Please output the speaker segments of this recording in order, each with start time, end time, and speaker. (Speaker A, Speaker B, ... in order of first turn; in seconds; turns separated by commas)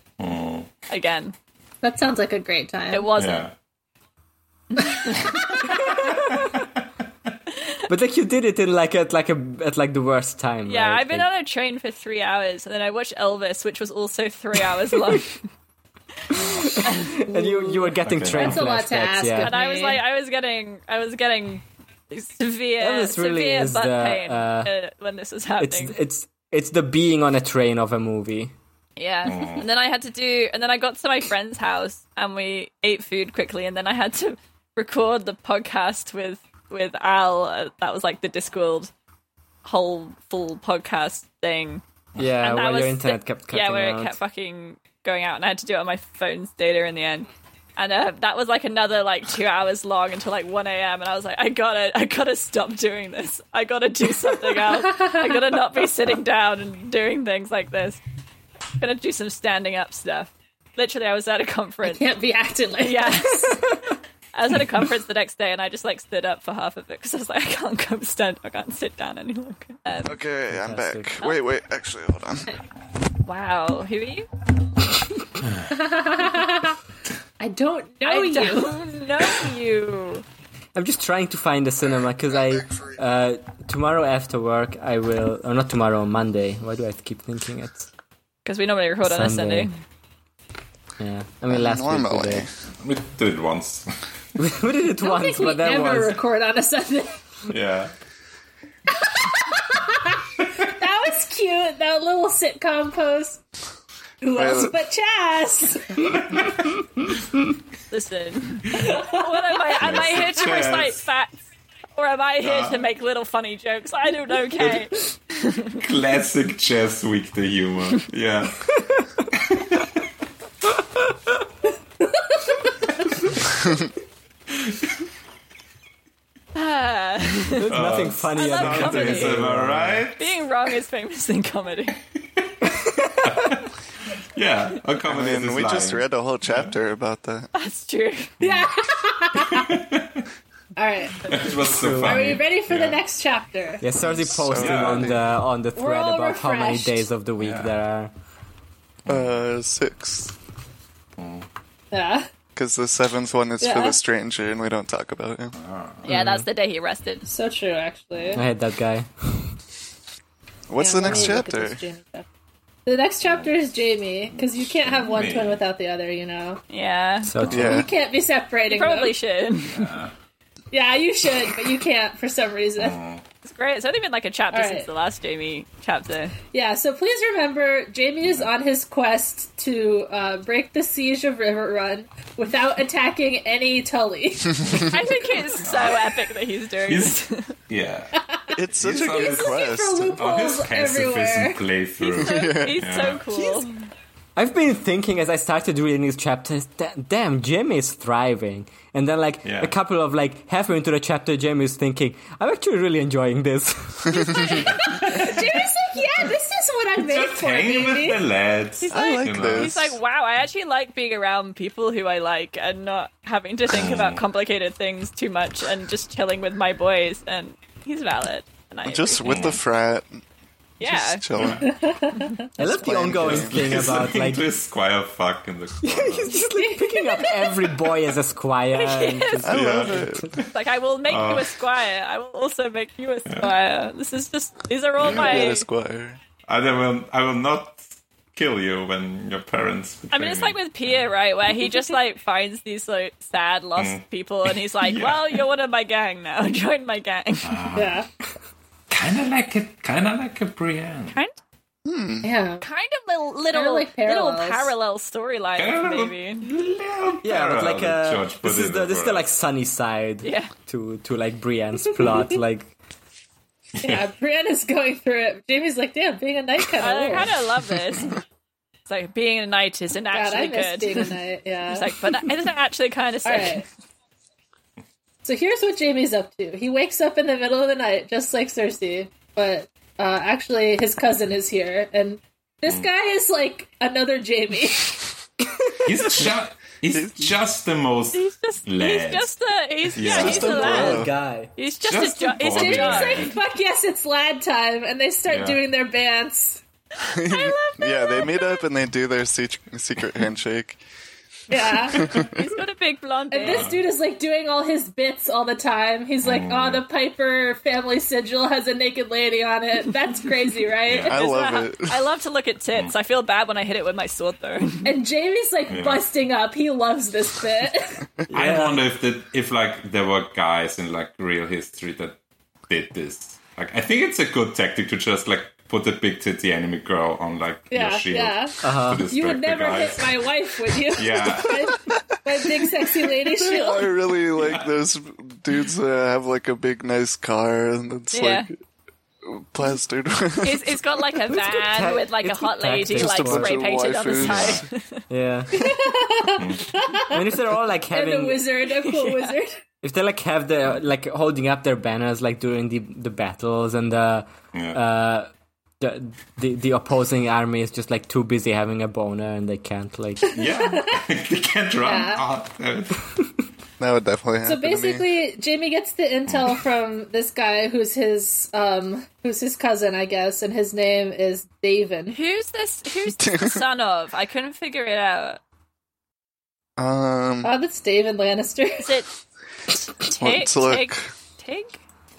Speaker A: 0.2-0.7, Speaker B: 0.9-1.3, Speaker C: 1.8-3.1, Speaker B: 2.9-3.5, Speaker A: 3.1-3.5, Speaker B: 4.7-5.3, Speaker A: 5.2-6.7, Speaker C: 5.6-5.9, Speaker D: 7.9-11.3, Speaker B: 10.7-15.4, Speaker A: 16.3-16.8, Speaker D: 16.3-19.5, Speaker B: 16.8-17.2, Speaker C: 17.3-20.0, Speaker A: 18.0-18.7, Speaker B: 19.4-25.9, Speaker D: 22.8-24.7, Speaker D: 25.6-28.5, Speaker B: 29.0-38.9, Speaker A: 29.2-29.6, Speaker B: 39.6-41.8, Speaker D: 42.2-44.2, Speaker B: 42.4-58.0, Speaker C: 54.7-55.3, Speaker B: 58.8-62.1, Speaker C: 61.8-63.7, Speaker B: 62.8-63.8, Speaker B: 64.3-70.2, Speaker E: 70.0-72.5, Speaker D: 70.5-71.1, Speaker B: 73.2-74.3, Speaker C: 75.7-76.8, Speaker C: 77.4-79.4, Speaker B: 78.0-80.2, Speaker D: 80.7-87.9, Speaker B: 88.4-89.7, Speaker D: 89.0-89.7, Speaker D: 91.0-92.4, Speaker E: 91.5-92.5, Speaker A: 92.8-93.9, Speaker D: 94.4-96.2, Speaker C: 95.0-97.2, Speaker A: 97.5-97.9, Speaker C: 98.9-103.4, Speaker C: 104.2-106.2, Speaker E: 104.3-104.8, Speaker B: 107.9-111.3, Speaker C: 108.9-109.2, Speaker A: 109.8-111.0, Speaker B: 112.0-115.8, Speaker A: 112.4-112.8, Speaker A: 115.8-118.7, Speaker D: 118.7-119.2, Speaker A: 119.3-119.8, Speaker C: 122.2-122.5, Speaker B: 126.5-127.7, Speaker D: 127.6-130.1, Speaker A: 127.7-130.3, Speaker B: 128.3-129.4, Speaker B: 130.2-132.0, Speaker D: 132.8-133.5, Speaker A: 133.2-133.7, Speaker A: 134.3-136.7, Speaker E: 135.0-137.5, Speaker B: 137.5-138.3, Speaker A: 138.4-138.7, Speaker C: 138.4-139.7, Speaker A: 139.4-140.2, Speaker C: 140.8-141.5, Speaker A: 141.2-143.0, Speaker D: 141.7-142.3, Speaker C: 142.0-143.8, Speaker D: 143.8-148.1, Speaker E: 143.9-145.2, Speaker A: 144.5-145.2, Speaker C: 145.8-147.1, Speaker A: 147.4-147.7, Speaker A: 149.1-149.3, Speaker E: 149.1-150.3, Speaker A: 151.2-151.5, Speaker C: 151.9-152.3, Speaker E: 152.5-155.5, Speaker C: 153.6-154.0, Speaker A: 155.5-156.1, Speaker B: 156.0-157.3, Speaker D: 156.1-156.4, Speaker C: 157.3-158.4, Speaker D: 158.3-159.5, Speaker E: 160.7-161.8, Speaker C: 160.8-162.2, Speaker C: 162.8-166.6, Speaker A: 163.2-163.5, Speaker A: 164.3-165.6, Speaker B: 166.7-167.3, Speaker D: 167.2-167.8, Speaker A: 167.4-167.7, Speaker E: 167.5-167.9, Speaker C: 167.5-169.1, Speaker B: 168.7-169.9, Speaker A: 169.7-170.1, Speaker C: 170.7-173.0, Speaker A: 172.8-173.2, Speaker B: 173.4-176.3, Speaker C: 174.5-174.9, Speaker C: 176.5-185.5, Speaker A: 178.2-178.5, Speaker B: 184.8-187.5, Speaker A: 185.6-186.1, Speaker A: 186.9-187.2, Speaker A: 187.7-188.1, Speaker C: 188.3-191.7, Speaker E: 188.5-190.2, Speaker A: 188.7-193.2, Speaker B: 192.0-193.7, Speaker E: 192.2-192.8, Speaker D: 194.3-204.5, Speaker A: 199.4-199.7, Speaker E: 204.1-204.6, Speaker C: 204.1-208.2, Speaker A: 204.8-205.3, Speaker A: 207.0-209.9, Speaker B: 208.8-219.3, Speaker E: 208.9-209.9, Speaker A: 213.7-214.2, Speaker E: 218.8-220.2, Speaker A: 219.2-219.6, Speaker B: 220.8-221.2, Speaker E: 220.8-221.7, Speaker A: 221.3-221.7, Speaker C: 221.6-222.4, Speaker D: 222.6-224.5, Speaker E: 222.6-224.1, Speaker A: 223.2-226.4, Speaker D: 225.8-230.2, Speaker C: 226.5-227.5, Speaker B: 228.7-229.5, Speaker E: 229.4-230.3, Speaker A: 229.5-230.5, Speaker B: 230.5-235.6, Speaker A: 231.1-231.5, Speaker A: 233.3-233.5, Speaker E: 235.0-236.2, Speaker A: 235.0-235.4, Speaker A: 236.4-241.0, Speaker B: 240.1-247.6, Speaker A: 244.8-245.4, Speaker A: 247.4-248.0, Speaker C: 247.7-248.1, Speaker A: 248.9-251.2, Speaker B: 251.1-251.4, Speaker E: 251.8-252.3, Speaker C: 252.2-252.6, Speaker B: 252.6-256.5, Speaker C: 253.5-254.7, Speaker A: 255.6-259.3, Speaker D: 257.2-262.7, Speaker B: 260.2-260.5, Speaker A: 263.8-264.0, Speaker C: 263.8-267.3, Speaker B: 266.8-268.1, Speaker B: 268.9-271.1, Speaker C: 270.1-271.9, Speaker B: 271.7-273.6, Speaker C: 273.2-273.6, Speaker C: 275.2-284.9, Speaker A: 285.8-289.3, Speaker E: 286.9-287.3, Speaker B: 288.1-293.3, Speaker A: 289.9-290.9, Speaker E: 289.9-291.1, Speaker D: 290.6-291.5, Speaker A: 291.9-293.4, Speaker C: 292.4-296.6, Speaker A: 295.3-295.6, Speaker E: 297.0-300.8, Speaker B: 297.3-298.6, Speaker C: 301.5-302.3, Speaker E: 302.0-302.3, Speaker B: 302.3-303.7, Speaker C: 303.3-311.2, Speaker A: 303.4-303.8, Speaker A: 306.2-306.8, Speaker A: 310.9-311.2, Speaker E: 311.0-311.9, Speaker B: 311.1-314.9, Speaker C: 314.8-318.0, Speaker A: 315.7-316.0, Speaker D: 318.3-318.8, Speaker A: 318.3-322.2, Speaker A: 322.7-330.2, Speaker C: 327.7-333.9, Speaker D: 328.6-329.1, Speaker A: 330.8-331.7, Speaker E: 332.9-338.5, Speaker A: 334.4-334.7, Speaker B: 338.1-338.5, Speaker E: 339.2-340.8, Speaker B: 340.4-345.0, Speaker D: 341.4-343.6, Speaker E: 342.9-344.6, Speaker A: 344.1-344.6, Speaker D: 345.1-345.5, Speaker C: 345.5-347.2, Speaker A: 346.4-346.6, Speaker D: 347.1-348.4, Speaker C: 347.9-349.6, Speaker B: 348.8-349.4, Speaker D: 349.8-355.3, Speaker A: 354.5-354.8, Speaker D: 355.8-360.3, Speaker A: 360.3-363.1, Speaker C: 360.3-361.0, Speaker C: 361.8-362.2, Speaker E: 363.8-365.2, Speaker C: 364.4-372.2, Speaker A: 366.3-366.5, Speaker B: 372.1-375.4, Speaker E: 373.2-373.6, Speaker E: 376.8-377.5, Speaker C: 377.4-378.9, Speaker B: 378.8-379.1, Speaker B: 379.7-381.8, Speaker E: 380.2-381.1